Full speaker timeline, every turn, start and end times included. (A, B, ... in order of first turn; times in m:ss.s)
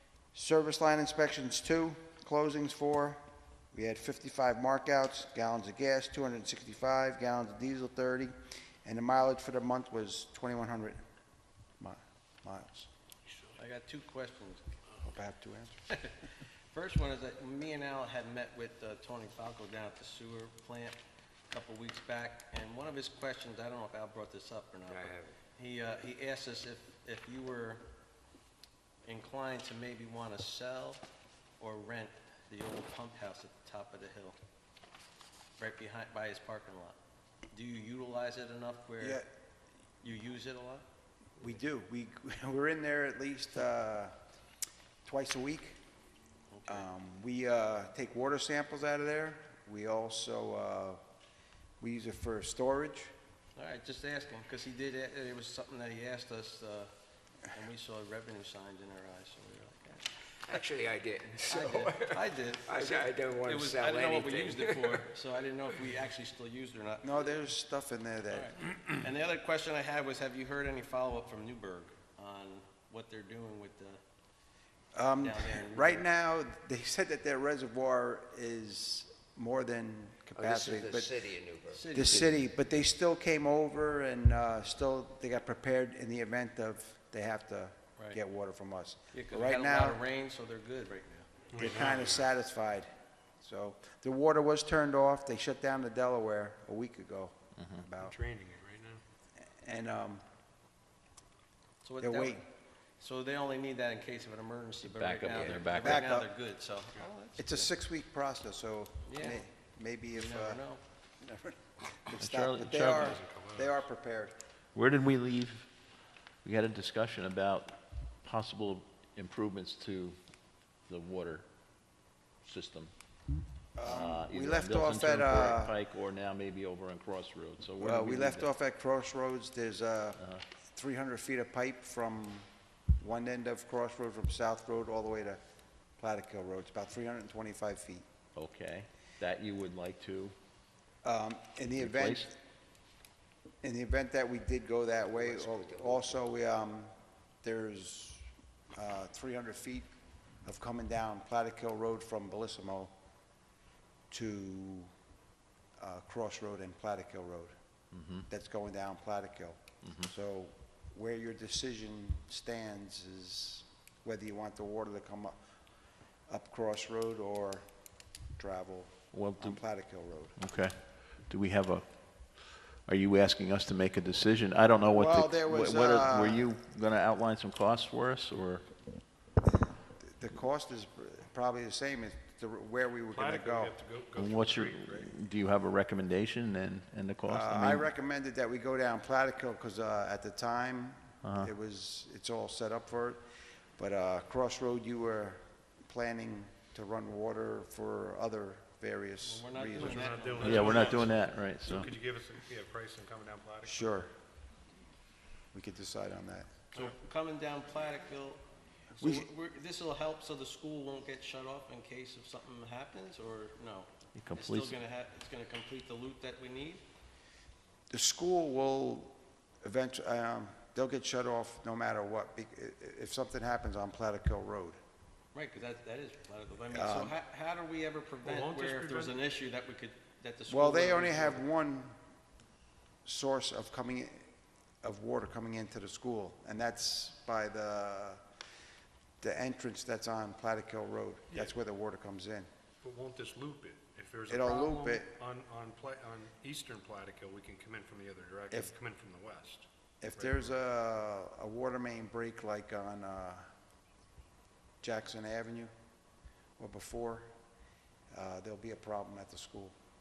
0:00.3-0:03.2 A
0:03.7-0:11.0 A
0:11.8-0:12.9 A
0:13.6-0:14.6 B
0:15.0-0:15.8 A
0:16.7-0:21.0 B
0:21.5-0:27.8 B
0:24.9-0:25.3 C
0:29.0-0:31.1 B
0:31.6-0:34.4 B
0:35.6-0:37.0 B
0:37.5-0:39.2 B
0:39.0-0:39.2 A
0:40.0-0:40.8 B
0:41.4-0:44.2 A
0:45.0-0:45.8 A
0:46.5-0:46.9 B
0:46.7-0:51.0 A
0:51.8-0:53.1 A
0:53.6-0:56.9 B
0:57.5-1:00.2 B
1:00.4-1:05.0 C
1:01.5-1:07.4 B
1:07.0-1:08.6 A
1:08.3-1:14.0 B
1:14.9-1:21.2 A
1:15.2-1:16.1 B
1:20.4-1:21.8 C
1:21.7-1:22.3 B
1:21.9-1:30.0 A
1:29.1-1:31.3 B
1:31.5-1:32.3 D
1:31.6-1:38.2 A
1:37.6-1:37.9 E
1:38.0-1:39.0 D
1:39.4-1:40.2 A
1:41.8-1:42.4 B
1:42.0-1:42.4 A
1:43.0-1:47.7 B
1:44.8-1:46.1 E
1:45.7-1:46.3 A
1:47.4-1:50.6 A
1:49.1-1:49.4 B
1:50.1-1:50.8 B
1:51.2-1:54.4 A
1:52.2-1:53.2 E
1:53.0-1:53.8 D
1:54.8-1:55.7 E
1:56.4-2:00.2 E
2:00.9-2:01.5 E
2:02.4-2:02.9 E
2:03.8-2:05.8 A
2:03.8-2:08.5 E
2:07.8-2:12.5 A
2:10.2-2:10.4 E
2:13.0-2:15.4 A
2:16.0-2:18.1 A
2:18.4-2:20.3 E
2:21.0-2:22.4 A
2:21.8-2:22.3 E
2:23.6-2:26.9 A
2:25.1-2:26.2 C
2:27.4-2:29.9 A
2:30.4-2:32.9 A
2:34.1-2:34.9 A
2:35.8-2:37.5 A
2:37.9-2:38.3 E
2:38.3-2:45.4 A
2:39.8-2:40.1 E
2:46.3-2:47.6 A
2:48.4-2:50.4 A
2:49.1-2:49.6 E
2:50.4-2:58.7 E
2:55.0-2:56.5 A
3:00.0-3:03.8 A
3:03.1-3:05.1 D
3:04.2-3:07.9 E
3:07.3-3:13.2 A
3:11.2-3:11.5 E
3:13.8-3:21.0 A
3:19.2-3:21.2 B
3:19.8-3:24.0 D
3:20.4-3:21.9 E
3:23.6-3:24.1 A
3:25.5-3:26.5 A
3:26.7-3:36.8 B
3:29.0-3:29.3 A
3:34.2-3:34.8 E
3:37.9-3:44.8 A
3:45.3-3:51.4 B
3:46.7-3:47.2 A
3:48.2-3:49.2 D
3:50.5-3:52.0 A
3:53.0-3:54.3 A
3:54.8-3:58.2 A
3:59.2-4:02.5 A
4:02.8-4:10.5 D
4:04.3-4:05.1 A
4:10.0-4:13.5 A
4:14.8-4:15.7 A
4:16.6-4:17.3 A
4:18.1-4:19.8 A